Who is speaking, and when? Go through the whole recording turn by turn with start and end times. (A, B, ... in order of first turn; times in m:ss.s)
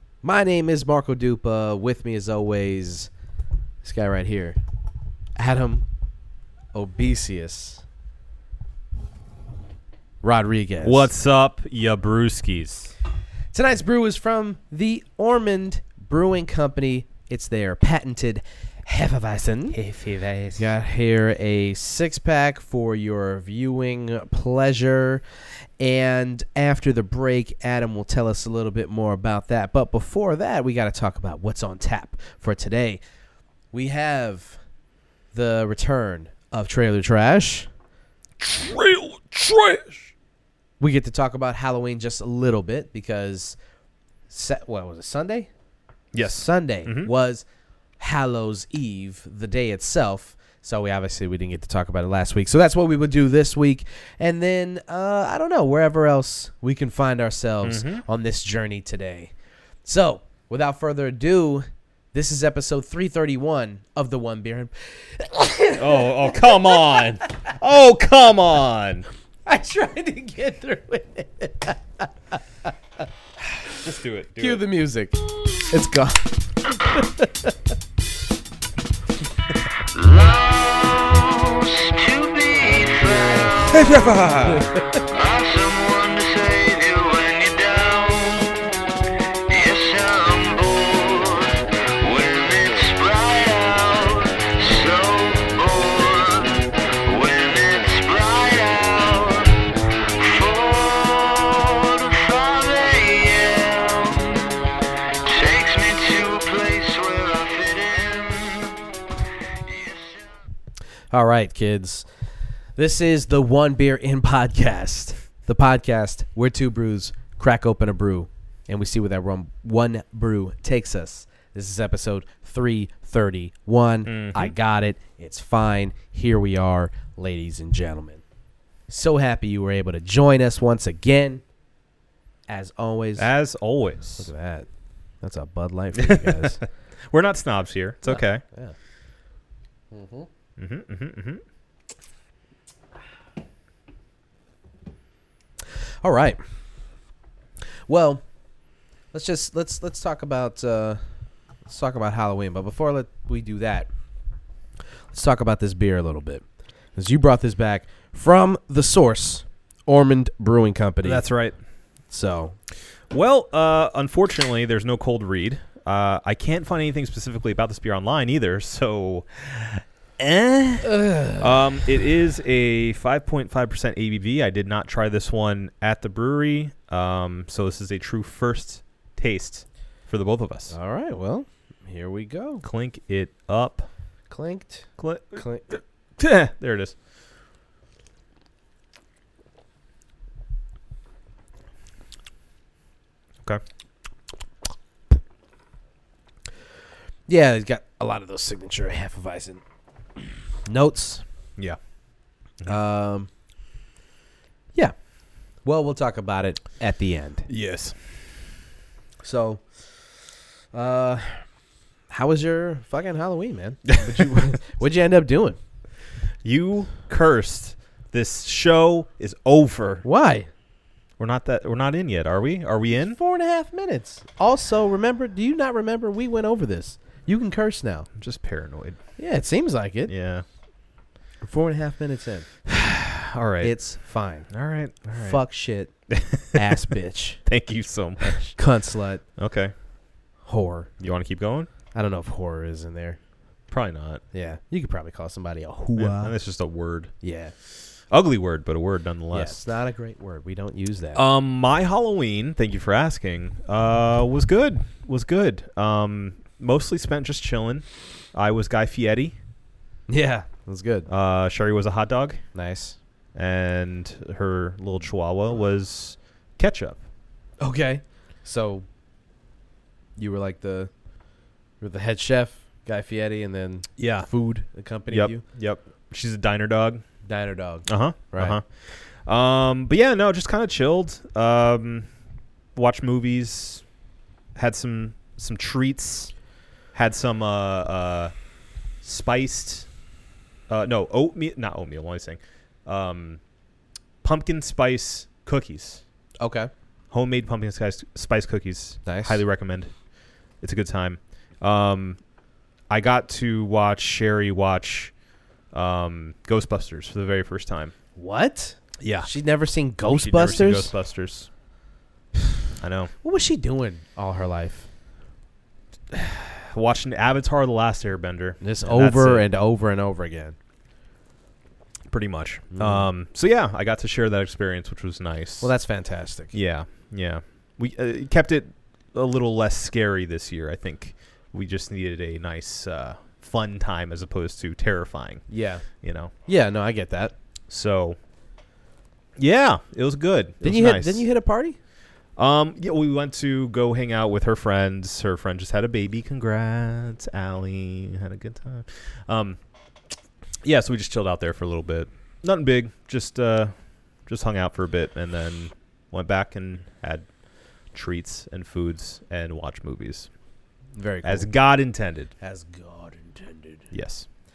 0:00.2-0:03.1 A
0:03.8-0:04.6 A
0:05.4-0:05.8 A
0:06.7-0:07.8 A
0:10.2-0:11.1 A
0:10.8-0:12.9 B
0:13.5-0:19.8 A
0:19.7-0:20.7 B
0:20.6-0:25.2 A
0:25.8-0:33.0 A
0:33.7-0:34.6 A
0:35.3-0:37.7 A
0:38.4-0:40.1 B
0:40.8-0:43.6 A
0:44.3-0:45.5 A
0:46.1-0:47.1 B
0:46.2-0:47.4 A
0:48.0-0:59.3 A
0:57.6-0:58.0 B
0:59.8-1:07.1 A
1:05.8-1:09.0 B
1:09.5-1:12.4 A
1:13.8-1:14.7 B
1:14.4-1:16.3 A
1:16.9-1:17.5 A
1:19.9-1:23.7 C
1:23.6-1:24.8 B
1:24.9-1:28.6 C
1:29.5-1:44.5 C
1:45.2-1:48.8 C
1:49.5-1:50.4 C
1:51.1-1:52.1 A
1:52.8-2:08.2 A
2:04.1-2:04.5 B
2:08.9-2:11.4 A
2:12.5-2:13.3 A
2:13.2-2:14.3 B
2:14.2-2:14.7 A
2:15.2-2:16.6 A
2:16.0-2:18.4 B
2:18.1-2:18.8 A
2:19.9-2:20.3 A
2:20.6-2:21.4 B
2:26.0-2:26.4 A
2:27.9-2:28.2 A
2:29.1-2:31.0 A
2:31.7-2:33.9 A
2:35.1-2:36.4 A
2:37.0-2:41.2 A
2:41.0-2:41.6 B
2:42.1-2:42.6 A
2:43.1-3:00.7 B
2:50.8-2:51.5 A
3:00.7-3:02.6 A
3:02.6-3:03.9 B
3:04.3-3:05.7 A
3:05.0-3:07.0 B
3:17.3-3:19.6 A
3:20.6-3:21.2 A
3:22.7-3:23.3 A
3:25.6-3:27.5 A
3:27.5-3:28.0 B
3:29.2-3:29.7 A
3:30.7-3:31.5 A
3:32.1-3:35.6 A
3:36.4-3:40.0 B
3:40.0-3:40.5 A
3:41.2-3:43.2 B
3:43.1-3:48.1 A
3:48.2-3:49.0 B
3:49.2-3:50.1 A
3:50.1-3:50.4 B
3:51.4-3:52.5 A
3:52.7-3:53.7 B
3:53.6-3:54.5 A
3:54.5-3:55.4 B
3:55.2-3:55.9 A
3:56.1-3:56.6 B
3:56.5-3:57.4 A
3:57.4-3:58.6 B
3:58.2-3:59.2 A
3:59.4-3:59.7 B
4:00.5-4:00.9 A
4:01.0-4:01.7 B
4:01.9-4:03.2 A
4:03.7-4:04.2 B
4:04.3-4:06.3 A
4:06.0-4:07.1 B
4:07.2-4:07.5 A
4:08.1-4:09.6 B
4:09.3-4:11.2 A
4:11.2-4:19.4 B
4:20.1-4:21.1 A
4:21.1-4:22.4 B
4:22.5-4:23.0 A
4:23.4-4:27.0 B
4:27.6-4:28.8 A
4:30.2-4:30.9 A
4:31.8-4:35.4 A
4:34.0-4:34.3 B
4:35.1-4:37.0 B
4:37.3-4:38.6 A
4:37.9-4:42.1 B
4:42.8-4:43.8 B
4:44.6-4:46.3 B
4:46.9-4:48.3 B
4:49.0-4:49.9 B
4:50.7-4:53.4 B
4:54.2-4:56.0 B
4:56.4-4:56.7 A
4:57.1-4:59.9 B
4:59.1-4:59.4 A
5:00.6-5:02.2 B
5:02.9-5:05.1 B
5:05.7-5:07.9 B
5:08.2-5:10.9 A
5:09.0-5:09.3 B
5:10.1-5:11.5 B
5:12.8-5:13.1 B
5:13.2-5:14.9 A
5:16.1-5:19.5 B
5:18.6-5:20.6 A
5:22.1-5:25.7 B
5:22.7-5:23.1 A
5:25.6-5:26.5 A
5:26.5-5:35.4 B
5:35.5-5:35.8 A
5:36.0-5:36.3 B
5:36.5-5:37.3 A
5:37.7-5:38.2 B
5:39.4-5:41.2 B
5:40.6-5:41.8 A
5:42.4-5:49.6 B
5:50.6-5:53.7 B
5:54.3-5:57.3 B
5:57.9-6:00.3 B
6:01.0-6:01.5 A
6:01.2-6:02.3 B
6:02.4-6:03.9 A
6:03.9-6:04.3 B